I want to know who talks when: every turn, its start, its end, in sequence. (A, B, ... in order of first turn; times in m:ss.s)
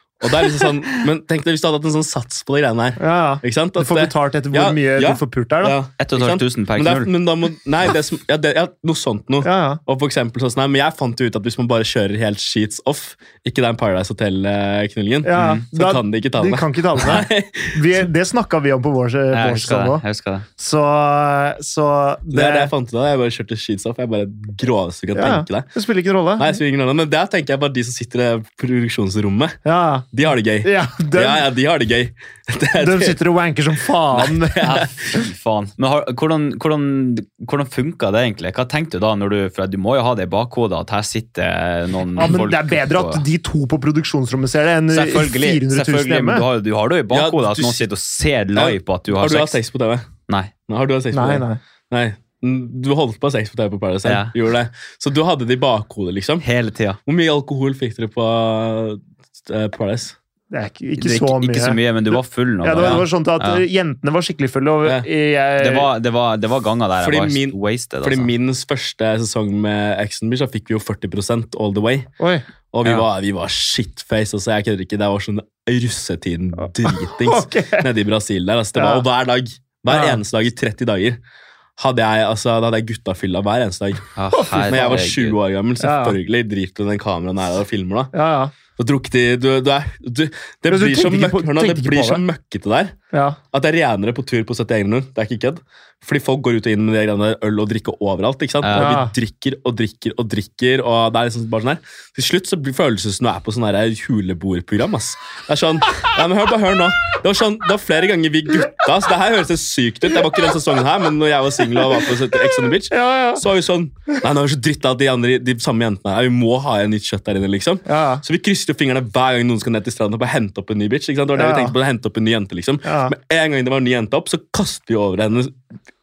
0:00.2-0:17.8 A
0:03.0-0:05.8 B
0:06.0-0:07.1 C
0:09.4-0:09.8 B
0:15.2-0:20.0 B
0:15.3-0:15.6 C
0:19.3-0:20.4 C
0:20.6-0:22.7 B
0:22.3-0:25.7 A
0:25.1-0:26.5 B
0:26.4-0:29.6 A
0:29.6-0:30.0 B
0:30.1-0:33.2 A
0:30.6-0:31.4 B
0:32.8-0:34.6 B
0:34.1-0:34.9 A
0:34.6-0:43.2 C
0:42.2-0:46.4 B
0:44.9-0:49.6 C
0:47.1-0:47.9 A
0:48.5-0:50.1 A
0:50.3-0:50.5 C
0:50.7-0:56.4 A
0:51.1-0:51.6 B
0:54.0-0:54.3 C
0:56.4-0:57.0 C
0:57.0-1:00.2 A
1:00.5-1:05.9 B
1:01.0-1:03.6 C
1:05.6-1:08.3 C
1:07.0-1:12.1 A
1:12.2-1:12.4 B
1:12.7-1:21.2 A
1:16.8-1:17.8 B
1:18.8-1:19.0 B
1:19.9-1:20.2 B
1:21.8-1:28.1 A
1:24.1-1:25.4 C
1:24.3-1:24.9 B
1:25.8-1:26.2 B
1:28.1-1:28.5 B
1:28.8-1:33.0 A
1:30.7-1:32.2 B
1:33.1-1:33.4 B
1:33.5-2:05.6 A
1:38.6-1:38.9 C
1:38.7-1:39.1 B
1:52.9-1:53.4 B
1:57.8-1:58.2 B
2:01.3-2:01.7 B
2:02.8-2:03.1 B